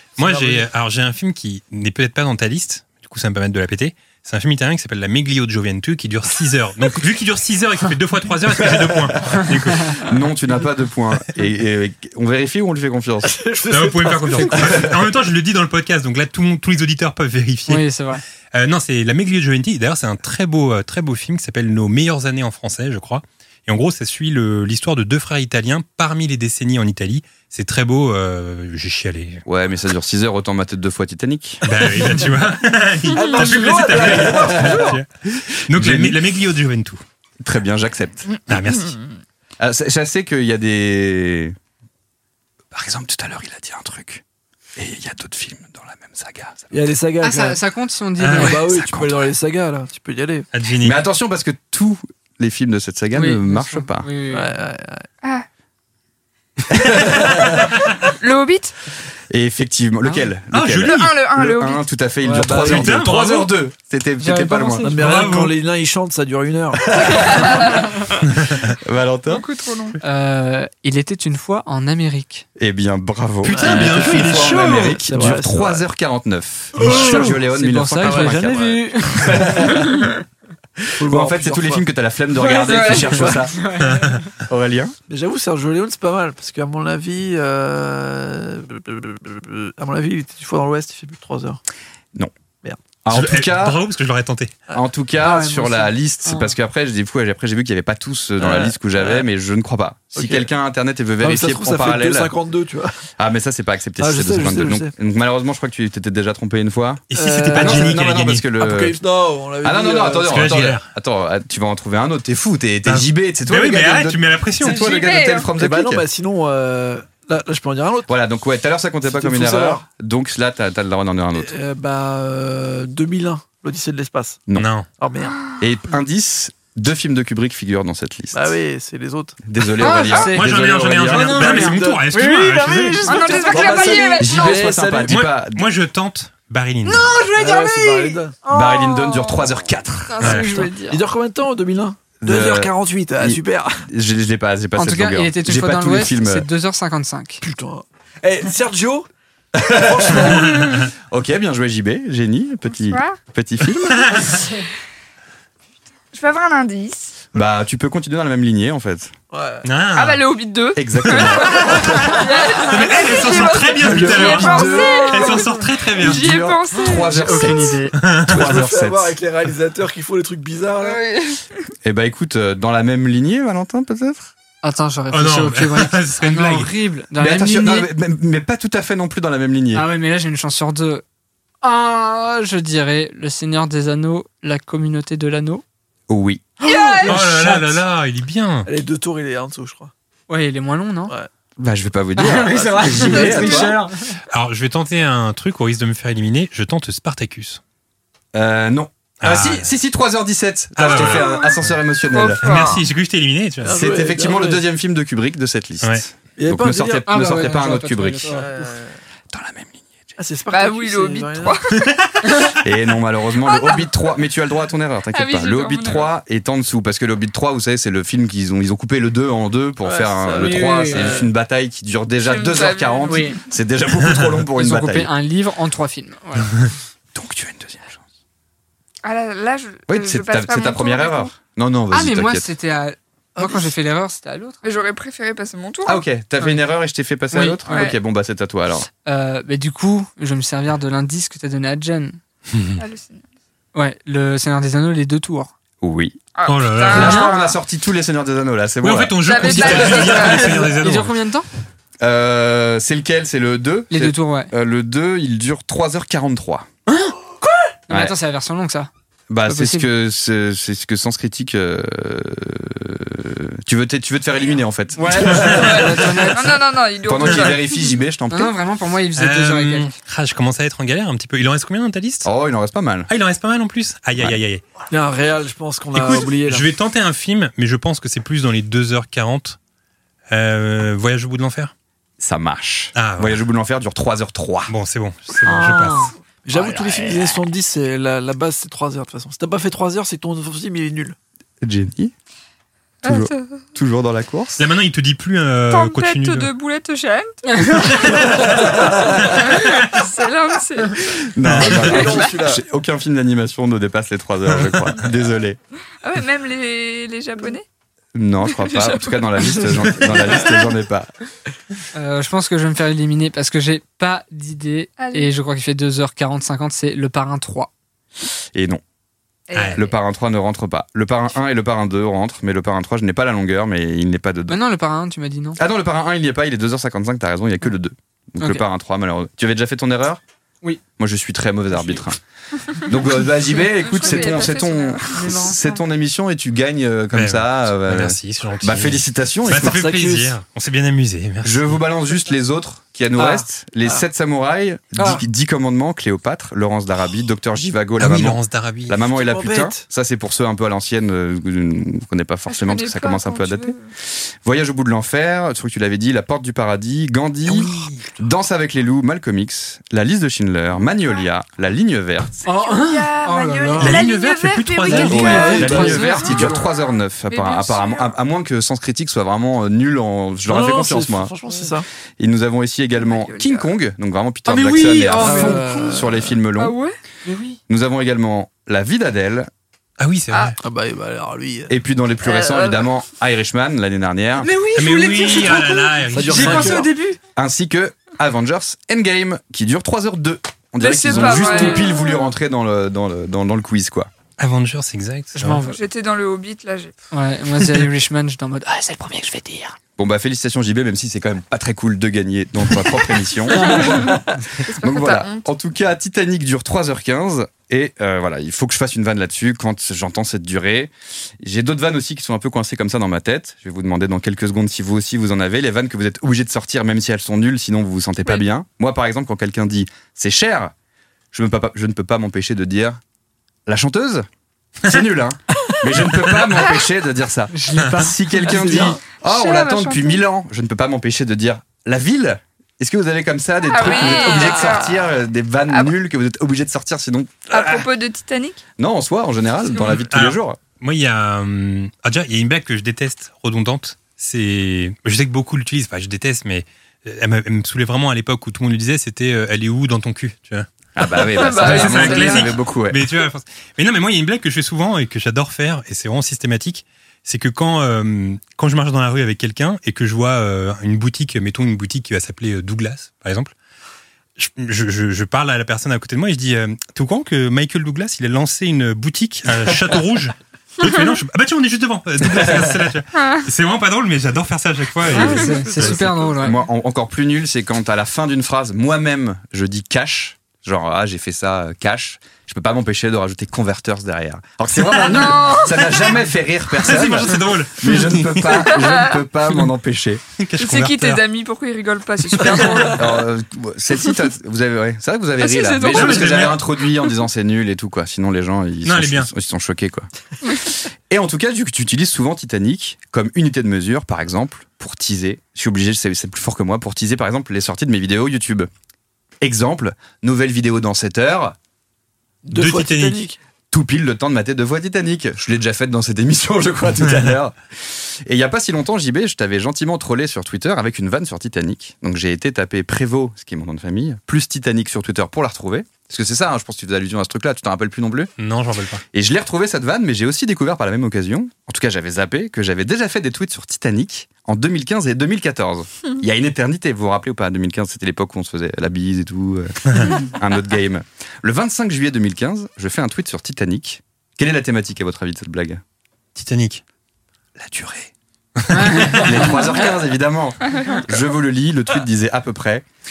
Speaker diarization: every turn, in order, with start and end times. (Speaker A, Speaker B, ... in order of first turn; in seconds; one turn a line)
Speaker A: 0.2-10.1
Speaker B: 0.2-0.7
Speaker C: 8.6-9.4
Speaker C: 10.0-13.4
Speaker B: 13.2-14.9
Speaker A: 13.7-17.9
Speaker D: 17.7-18.2
Speaker A: 18.5-29.4
Speaker C: 29.4-32.0
Speaker A: 31.6-37.0
Speaker B: 33.1-35.0
Speaker E: 33.3-33.7
Speaker C: 34.3-34.9
Speaker C: 35.7-36.2
Speaker C: 37.4-38.3
Speaker E: 38.4-39.1
Speaker A: 38.5-39.0
Speaker C: 39.6-41.5
Speaker C: 42.7-44.2
Speaker C: 44.8-46.9
Speaker B: 46.7-47.6
Speaker D: 47.2-48.6
Speaker A: 48.2-48.5
Speaker B: 48.3-50.5
Speaker C: 48.7-49.3
Speaker A: 50.5-51.0
Speaker C: 50.8-54.1
Speaker D: 53.1-54.5
Speaker B: 54.3-55.0
Speaker E: 58.0-58.8
Speaker C: 59.3-64.9
Speaker A: 60.5-61.2
Speaker E: 60.8-61.8
Speaker B: 62.2-63.0
Speaker A: 62.5-63.5
Speaker D: 64.2-65.3
Speaker B: 64.8-67.7
Speaker A: 65.0-65.5
Speaker E: 67.2-67.9
Speaker A: 68.3-68.7
Speaker C: 68.8-69.5
Speaker E: 69.3-70.0
Speaker D: 70.0-72.5
Speaker C: 72.5-79.9
Speaker A: 73.4-75.0
Speaker B: 73.6-75.9
Speaker D: 76.8-79.9
Speaker B: 76.8-77.4
Speaker B: 78.0-78.5
Speaker B: 79.3-79.8
Speaker B: 81.0-81.8
Speaker C: 81.0-83.5
Speaker E: 82.5-83.3
Speaker D: 83.2-84.2
Speaker A: 83.8-84.2
Speaker C: 84.4-85.0
Speaker B: 85.1-91.6
Speaker C: 93.0-93.8
Speaker A: 93.1-94.5
Speaker C: 94.7-102.3
Speaker D: 95.2-96.5
Speaker B: 98.4-99.3
Speaker B: 100.1-100.5
Speaker B: 101.2-103.0
Speaker C: 103.2-109.0
Speaker B: 104.0-104.9
Speaker A: 107.1-108.5
Speaker B: 107.1-108.0
Speaker B: 108.5-110.6
Speaker C: 109.6-116.0
Speaker A: 110.3-110.9
Speaker A: 112.9-114.9
Speaker E: 114.8-115.5
Speaker B: 115.5-118.1
Speaker C: 118.1-121.5
Speaker B: 119.0-119.8
Speaker B: 121.3-124.5
Speaker A: 124.5-124.9
Speaker B: 125.0-125.4
Speaker C: 125.6-128.5
Speaker B: 128.3-129.4
Speaker C: 129.4-131.7
Speaker D: 129.8-130.5
Speaker A: 130.1-133.2
Speaker D: 131.2-134.1
Speaker B: 131.3-135.2
Speaker E: 133.1-134.9
Speaker C: 134.2-135.7
Speaker A: 135.1-137.2
Speaker D: 136.9-139.4
Speaker B: 137.1-138.4
Speaker C: 138.5-140.4
Speaker D: 140.1-141.0
Speaker A: 140.2-140.5
Speaker B: 140.8-143.9
Speaker C: 142.2-146.5
Speaker D: 144.8-147.4
Speaker B: 147.4-149.1
Speaker C: 149.6-154.3
Speaker B: 149.7-150.6
Speaker A: 150.2-150.9
Speaker E: 152.8-153.2
Speaker A: 154.0-154.4
Speaker E: 156.1-157.2
Speaker C: 157.3-159.1
Speaker B: 159.3-159.7
Speaker A: 159.6-160.2
Speaker E: 159.9-167.6
Speaker C: 160.8-162.2
Speaker A: 161.2-166.3
Speaker B: 163.8-165.5
Speaker C: 166.0-169.2
Speaker D: 166.7-168.0
Speaker A: 168.0-168.5
Speaker B: 168.3-171.0
Speaker E: 170.8-171.7
Speaker C: 171.8-174.3
Speaker D: 174.6-177.9
Speaker A: 175.1-176.7
Speaker C: 177.2-179.8
Speaker D: 179.7-181.0
Speaker D: 181.6-185.6
Speaker C: 186.1-186.4
Speaker D: 186.6-187.8
Speaker E: 186.7-187.1
Speaker A: 187.1-188.7
Speaker B: 188.7-189.9
Speaker D: 190.3-191.1
Speaker C: 191.6-193.7
Speaker D: 192.2-194.2
Speaker B: 192.8-193.8
Speaker A: 194.3-197.6
Speaker C: 198.3-202.7
Speaker A: 199.2-199.7
Speaker A: 200.8-201.7
Speaker E: 200.9-201.4
Speaker E: 202.1-202.8
Speaker A: 202.4-203.8
Speaker B: 203.6-204.6
Speaker C: 203.7-208.4
Speaker B: 206.4-207.0
Speaker D: 207.1-208.8
Speaker B: 208.3-208.9
Speaker C: 209.3-210.0
Speaker B: 210.2-211.6
Speaker E: 210.5-211.9
Speaker A: 211.8-212.1
Speaker C: 212.6-225.1
Speaker E: 213.4-213.9
Speaker E: 215.1-216.1
Speaker B: 219.8-221.3
Speaker D: 220.3-221.3
Speaker E: 222.2-223.5
Speaker D: 223.1-223.4
Speaker D: 224.6-226.5
Speaker C: 227.1-228.0
Speaker E: 229.0-231.3
Speaker C: 229.9-232.5
Speaker D: 231.9-234.6
Speaker B: 233.4-233.7
Speaker E: 234.6-236.0
Speaker C: 235.8-238.9
Speaker D: 237.3-237.9
Speaker E: 237.7-238.0
Speaker D: 239.1-242.2
Speaker A: 242.5-242.8
Speaker E: 242.8-243.2
Speaker D: 243.7-245.5
Speaker C: 245.8-246.2
Speaker E: 246.3-247.6
Speaker A: 246.4-247.3
Speaker C: 246.8-250.1
Speaker D: 246.9-247.3
Speaker A: 248.8-251.2
Speaker E: 249.2-250.7
Speaker D: 249.7-251.5
Speaker C: 252.0-256.7
Speaker D: 253.9-254.5
Speaker D: 256.9-257.2
Speaker D: 257.9-258.9
Speaker C: 257.9-258.1
Speaker C: 259.3-265.8
Speaker D: 259.4-259.9
Speaker D: 265.0-266.6
Speaker B: 265.1-265.5
Speaker E: 265.5-267.8
Speaker C: 267.0-268.5
Speaker D: 268.3-269.9
Speaker A: 269.2-272.3
Speaker C: 272.2-273.1
Speaker A: 273.1-274.6
Speaker B: 274.9-276.7
Speaker A: 275.9-279.6
Speaker A: 280.3-281.7
Speaker C: 282.2-284.7
Speaker A: 282.9-283.4
Speaker A: 284.7-286.1
Speaker D: 285.4-287.4
Speaker B: 285.9-291.2
Speaker C: 291.6-292.1
Speaker C: 293.0-294.7
Speaker E: 293.1-293.6
Speaker A: 294.6-296.5
Speaker E: 295.7-301.2
Speaker A: 297.7-300.1
Speaker B: 298.4-299.3
Speaker C: 301.1-305.6
Speaker A: 301.4-302.0
Speaker B: 301.7-302.6
Speaker E: 302.1-302.3
Speaker E: 306.0-307.6
Speaker C: 308.1-311.1
Speaker E: 308.5-310.7
Speaker D: 311.9-317.7
Speaker E: 315.0-315.3
Speaker C: 318.5-318.8
Speaker E: 319.5-320.0
Speaker A: 319.5-319.8
Speaker C: 319.7-324.6
Speaker D: 324.5-325.6
Speaker C: 325.6-330.2
Speaker C: 331.0-332.2
Speaker C: 332.7-339.9
Speaker E: 333.6-335.4
Speaker D: 335.1-335.8
Speaker A: 337.1-341.7
Speaker B: 339.5-340.4
Speaker C: 341.4-362.4
Speaker B: 343.1-344.1
Speaker B: 345.0-345.2
Speaker A: 348.0-349.0
Speaker B: 349.2-349.8
Speaker E: 352.5-353.9
Speaker A: 357.5-358.1
Speaker D: 362.4-364.1
Speaker E: 362.4-366.6
Speaker A: 363.8-365.7
Speaker D: 364.9-366.4
Speaker B: 364.9-366.7
Speaker C: 365.1-371.3
Speaker E: 367.3-368.1
Speaker B: 370.5-371.9
Speaker C: 372.2-376.8
Speaker E: 372.9-373.7
Speaker D: 374.4-376.0
Speaker B: 375.2-376.2
Speaker E: 376.6-376.9
Speaker D: 377.3-377.6
Speaker C: 377.7-379.5
Speaker A: 380.0-380.6
Speaker B: 380.6-381.7
Speaker C: 381.7-384.5
Speaker E: 382.2-382.9
Speaker D: 384.4-387.2
Speaker A: 384.7-386.8
Speaker B: 386.1-386.9
Speaker C: 387.4-394.1
Speaker E: 390.8-392.3
Speaker D: 391.2-391.8
Speaker A: 394.4-395.6
Speaker D: 395.4-395.8
Speaker E: 395.6-396.9
Speaker D: 397.1-399.8
Speaker C: 400.0-404.1
Speaker E: 403.5-405.5
Speaker D: 403.5-404.1
Speaker C: 404.8-420.7
Speaker C: 421.3-423.0
Speaker C: 423.7-424.3
Speaker C: 424.8-437.8
Speaker D: 427.5-429.0
Speaker B: 428.5-429.0
Speaker E: 429.2-430.2
Speaker E: 433.6-435.0
Speaker B: 433.9-434.8
Speaker E: 437.5-438.6
Speaker C: 438.8-440.6
Speaker A: 439.8-450.7
Speaker C: 450.9-453.1
Speaker E: 451.3-452.6
Speaker A: 451.4-463.5
Speaker A: 464.4-476.3
Speaker D: 475.1-476.6
Speaker E: 475.2-475.6
Speaker C: 476.4-490.2
Speaker E: 484.9-486.2
Speaker A: 486.8-488.7
Speaker E: 488.6-489.2
Speaker A: 490.4-491.2
Speaker E: 490.6-493.2
Speaker A: 492.3-492.9
Speaker C: 492.9-508.7
Speaker E: 495.4-497.1
Speaker A: 495.9-496.6
Speaker A: 498.8-499.3
Speaker E: 500.4-500.7
Speaker C: 509.4-511.6
Speaker B: 512.4-513.4
Speaker A: 512.5-513.2
Speaker C: 513.7-528.3
Speaker A: 517.0-517.3
Speaker A: 528.4-529.0
Speaker C: 529.1-545.8
Speaker A: 546.4-546.8
Speaker A: 547.6-549.4
Speaker D: 548.7-549.7
Speaker C: 549.1-552.9